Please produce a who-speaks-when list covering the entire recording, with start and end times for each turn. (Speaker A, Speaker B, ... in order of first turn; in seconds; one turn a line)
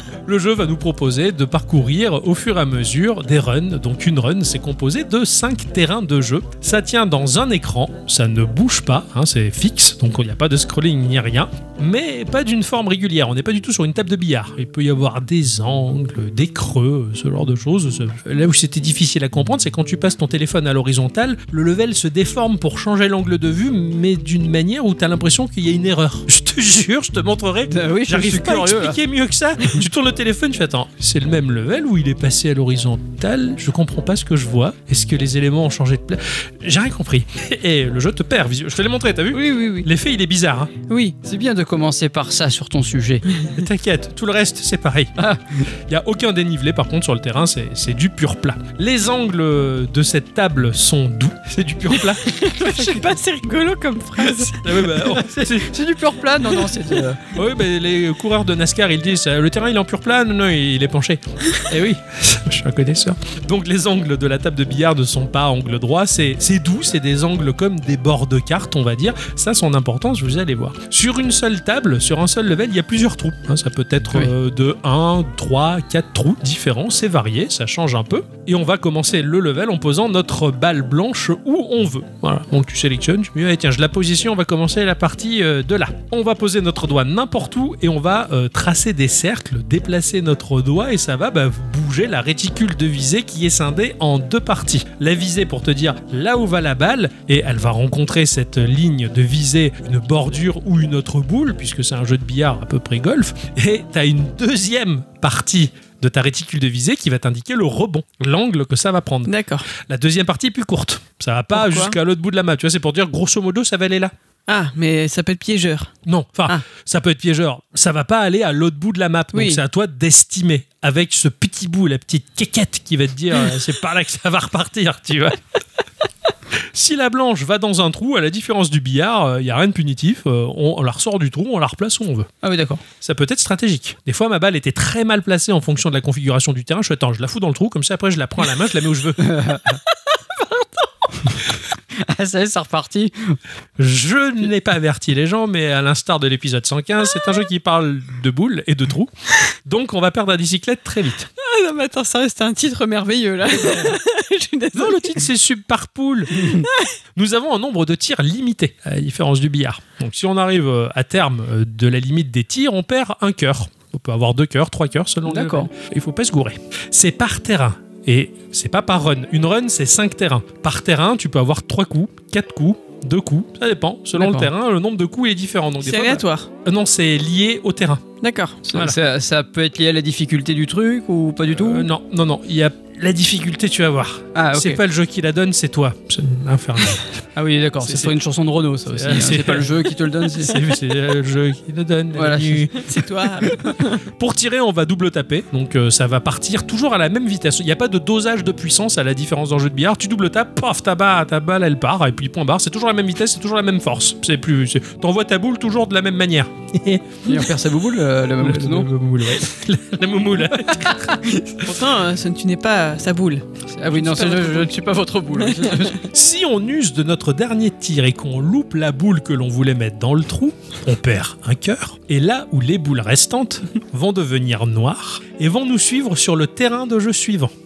Speaker A: 0.3-40.7
Speaker B: 27.7-29.0
Speaker C: 39.3-39.9
Speaker C: 40.9-41.2
Speaker B: 41.2-43.2
Speaker A: 43.5-45.1
Speaker B: 45.2-45.6
Speaker A: 45.9-52.2
Speaker C: 52.2-54.6
Speaker A: 54.2-55.8
Speaker B: 55.0-57.3
Speaker A: 57.3-114.1
Speaker C: 109.3-109.7
Speaker C: 111.5-112.0
Speaker C: 114.5-115.9
Speaker A: 116.1-125.4
Speaker C: 119.3-119.6
Speaker A: 126.7-132.3
Speaker B: 132.4-132.8
Speaker A: 133.0-139.2
Speaker B: 139.2-139.8
Speaker B: 142.0-143.4
Speaker A: 143.8-149.1
Speaker A: 149.6-151.3
Speaker C: 151.4-155.2
Speaker A: 154.7-156.5
Speaker A: 157.2-178.0
Speaker B: 165.3-165.7
Speaker B: 174.2-174.5
Speaker C: 175.8-176.5
Speaker C: 178.2-178.6
Speaker B: 178.7-181.9
Speaker A: 181.5-187.1
Speaker B: 184.3-184.8
Speaker B: 187.4-190.7
Speaker A: 187.8-188.2
Speaker A: 188.9-192.7
Speaker B: 192.2-192.7
Speaker C: 192.8-194.0
Speaker A: 194.1-207.2
Speaker B: 207.3-209.4
Speaker A: 208.4-211.6
Speaker C: 211.6-214.7
Speaker B: 213.8-216.0
Speaker C: 215.6-215.9
Speaker A: 216.1-227.5